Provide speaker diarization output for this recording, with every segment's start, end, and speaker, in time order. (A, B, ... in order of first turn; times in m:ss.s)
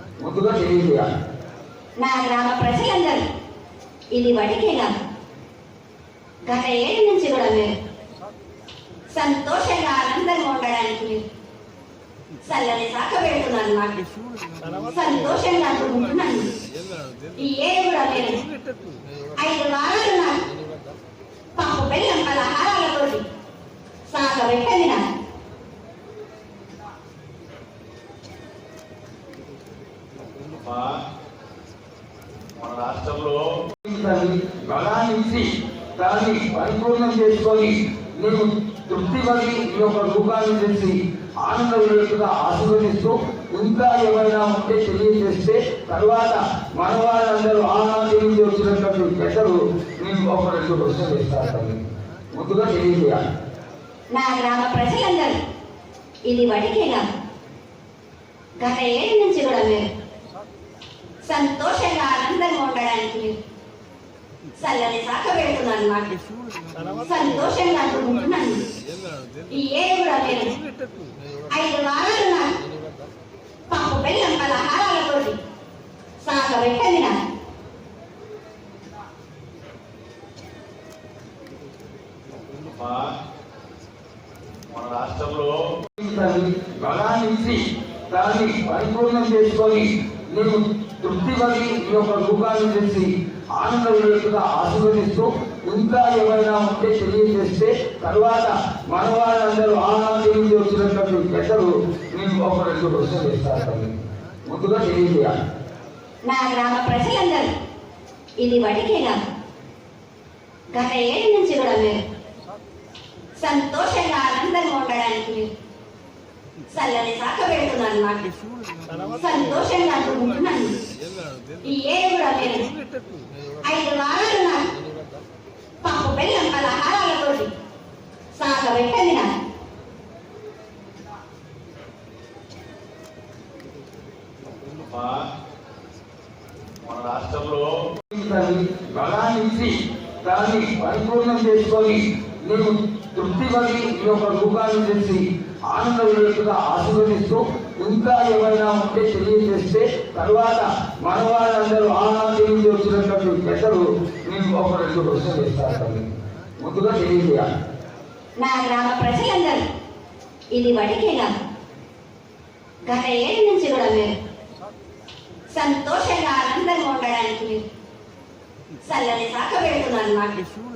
0:00.2-0:01.1 A
0:02.0-0:03.3 B
0:04.1-0:04.9 B
0:06.5-0:07.8 B
0:09.1-0:11.3 B
0:12.5-0:14.0 B
0:14.6-0:16.5 B
0:17.3-0:18.4 B
0:19.3-0:20.5 B
0:21.6-0:23.2 B
0:24.1-0:25.0 B
0:30.4-0:31.0 C
0:32.6-0:33.5 C
0:33.8-0:51.8 A
0:52.3-0:53.2 A
0:54.2-0:55.4 B
0:56.3-0:57.0 B
0:58.6-0:59.9 B
1:01.3-1:03.4 B
1:04.6-1:06.2 B
1:06.7-1:08.7 B
1:09.5-1:12.6 B
1:13.7-1:15.4 B
1:16.2-1:17.2 B
1:22.5-1:23.1 C
1:24.7-1:25.6 C
1:26.0-1:44.0 A
1:44.5-1:45.3 A
1:46.3-1:47.5 B
1:48.4-1:49.2 B
1:50.7-1:52.0 B
1:53.4-1:55.5 B
1:56.7-1:58.3 B
1:58.9-2:00.9 B
2:01.6-2:02.7 B
2:03.6-2:04.7 B
2:05.8-2:07.5 B
2:08.4-2:09.3 B
2:14.6-2:15.3 C
2:16.8-2:17.7 C
2:18.1-2:36.1 A
2:36.6-2:37.5 A
2:38.4-2:39.6 B
2:40.5-2:41.3 B
2:42.9-2:44.2 B
2:45.5-2:47.7 B
2:48.9-2:50.4 B